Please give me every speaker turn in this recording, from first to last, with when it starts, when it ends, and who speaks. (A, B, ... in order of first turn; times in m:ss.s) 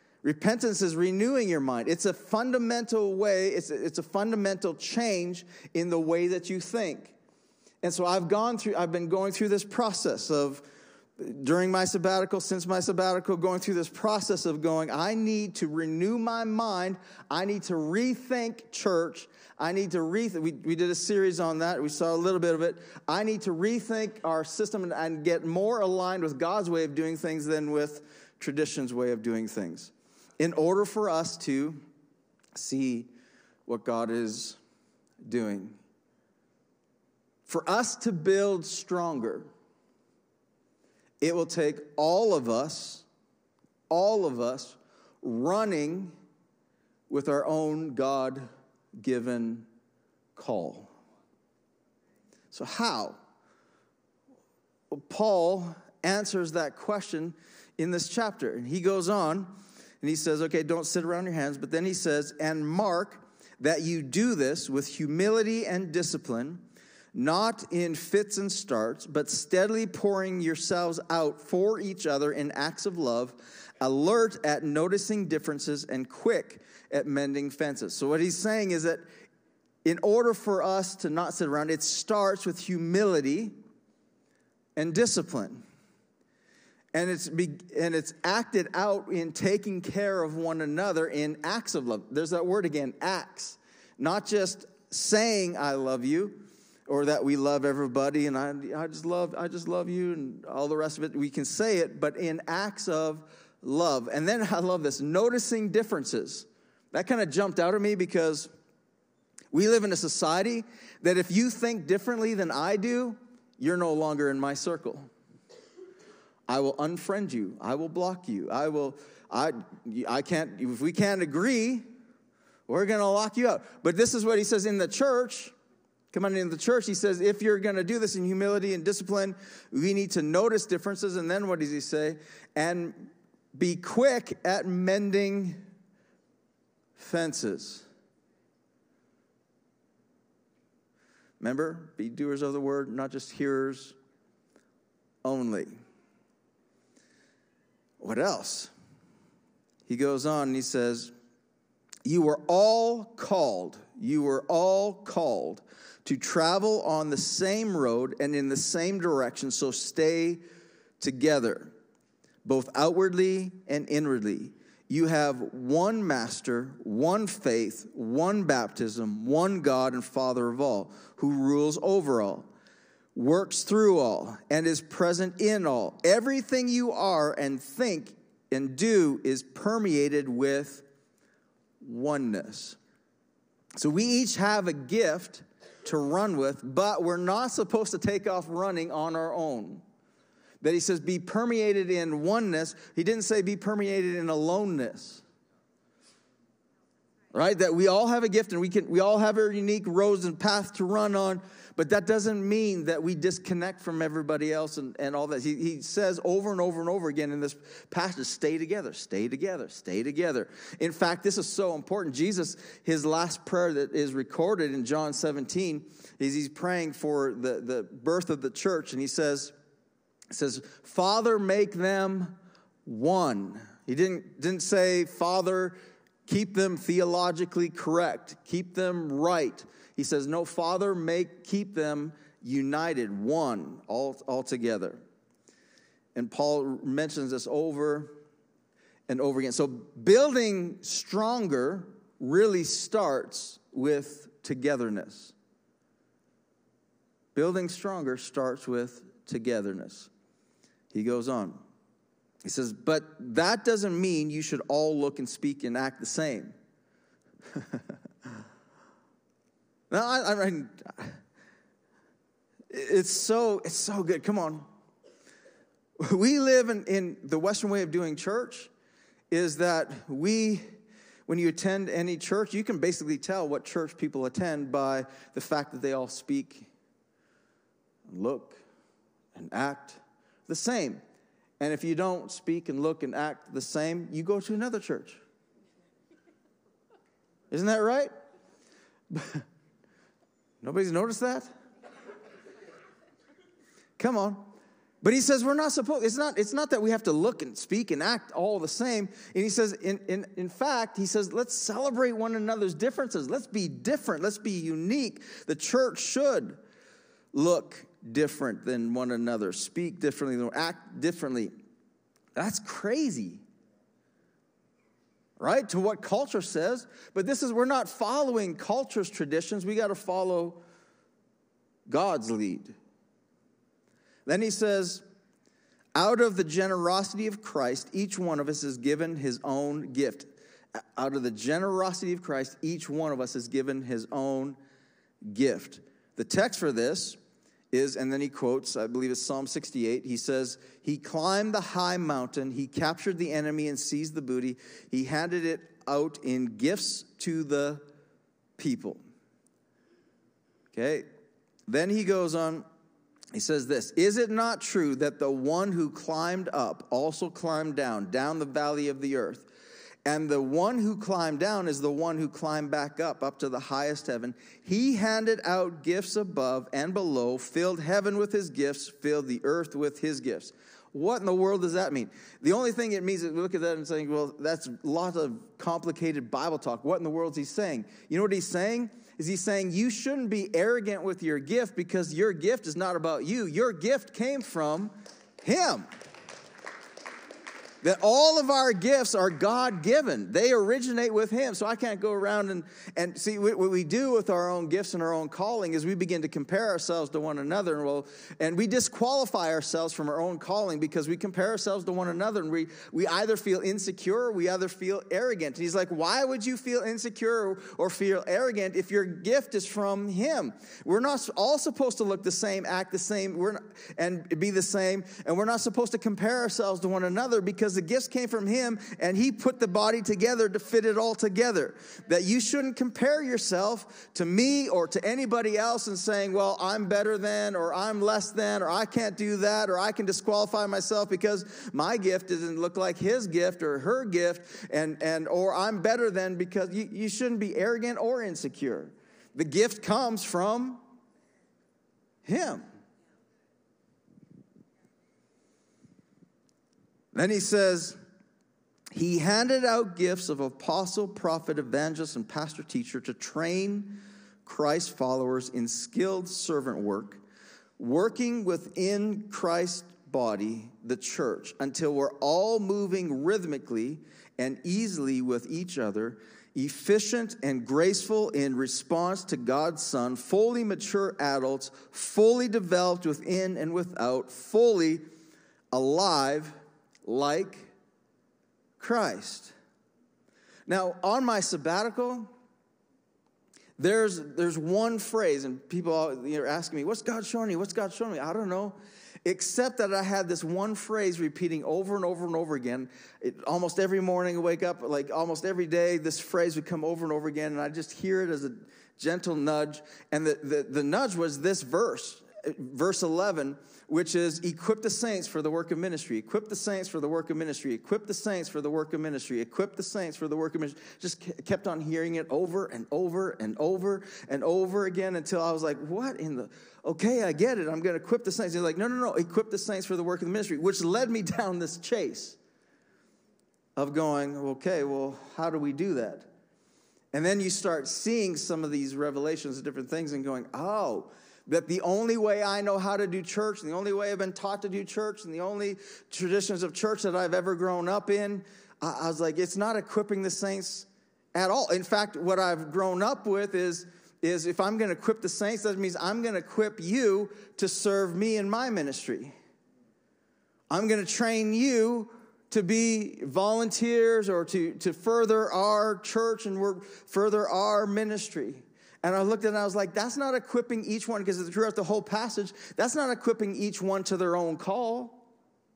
0:00.2-0:07.1 A
0:07.8-0:10.6 A
0:11.2-0:31.8 A
0:32.5-0:33.1 A
0:33.7-0:34.6 A
0:35.2-0:35.8 A
0:37.5-0:39.5 A
0:41.2-0:43.0 A
0:43.9-0:46.2 A
0:47.1-0:49.7 A
0:50.4-0:50.9 A
0:52.5-0:53.2 A
0:54.9-1:19.0 A
1:19.8-1:23.6 A
1:24.8-1:25.6 A
1:26.9-1:48.5 A
1:49.5-1:55.1 A
1:56.5-2:01.9 A
2:02.7-2:05.5 A
2:06.1-2:15.6 A
2:17.0-2:17.9 A
2:21.4-2:24.0 A
2:25.2-2:25.7 A
2:28.0-2:28.7 A
2:29.9-2:31.1 A
2:32.0-2:40.4 A
2:41.0-2:41.7 A
2:42.4-2:52.5 A
2:53.1-3:00.8 A
3:01.8-3:02.8 A
3:03.8-3:09.8 A
3:10.6-3:15.2 A
3:17.3-3:39.5 A
3:40.3-3:55.0 A
3:56.1-3:58.2 A
3:59.1-4:05.3 A
4:07.3-4:10.1 A
4:10.9-4:11.6 A
4:12.4-4:16.5 A
4:17.5-4:17.8 A
4:19.9-4:21.2 A
4:22.7-4:24.6 A
4:26.0-4:28.7 A
4:29.3-4:30.6 A
4:31.3-4:36.7 A
4:38.1-4:38.6 A
4:39.3-4:41.0 A
4:41.6-4:45.2 A
4:47.5-4:48.1 A
4:49.1-4:49.4 A
4:50.6-4:51.5 A
4:54.0-5:06.6 A
5:07.3-5:11.5 A
5:12.4-5:13.4 A
5:15.4-5:20.6 A
5:21.9-5:22.8 A
5:24.2-5:25.0 A
5:26.0-5:30.3 A
5:31.0-5:34.6 A
5:35.3-5:37.2 A
5:37.7-5:47.8 A
5:48.6-5:49.0 A
5:50.7-5:51.1 A
5:51.7-5:52.6 A
5:53.3-5:59.5 A
6:00.0-6:25.9 A
6:27.8-7:20.8 A
7:22.2-7:22.6 A
7:27.1-7:28.0 A
7:28.9-7:37.2 A
7:37.8-7:55.0 A
7:55.7-7:57.7 A
7:58.8-7:59.5 A
8:00.7-8:02.3 A
8:03.8-8:42.4 A
8:43.8-8:46.3 A
8:47.1-9:09.3 A
9:10.7-9:25.3 A